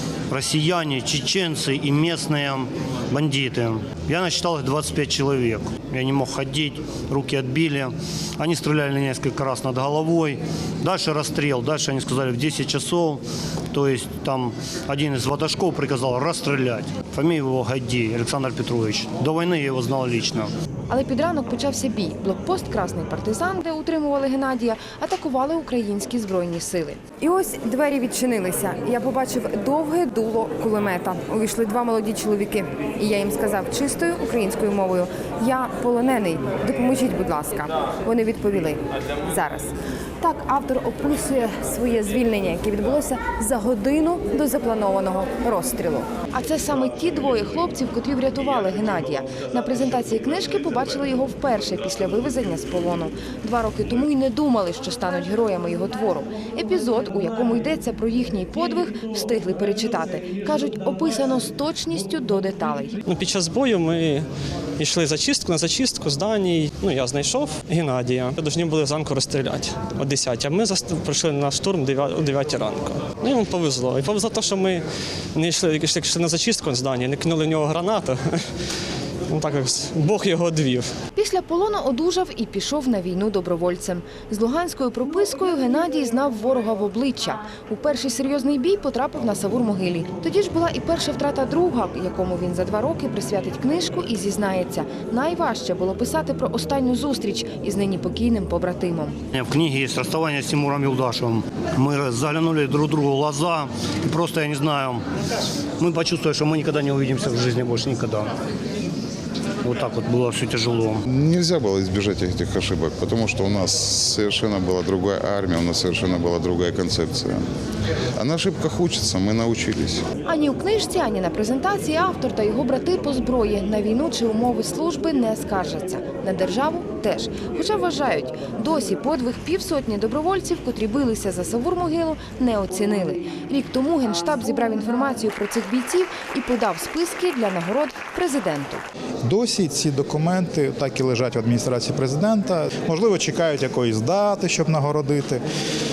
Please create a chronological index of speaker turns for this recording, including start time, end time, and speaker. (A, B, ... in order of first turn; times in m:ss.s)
0:00.3-0:20.5 A
0:20.9-1:03.0 B
1:03.0-1:04.3 C
1:04.8-1:14.8 C
1:15.3-1:18.4 C
1:19.3-1:20.9 C
1:21.2-1:39.2 B
1:39.3-1:45.0 A
1:45.8-1:48.3 A
1:49.6-1:51.0 A
1:51.1-1:57.5 D
1:58.2-2:00.0 D
2:00.2-2:18.8 B
2:19.2-2:25.4 E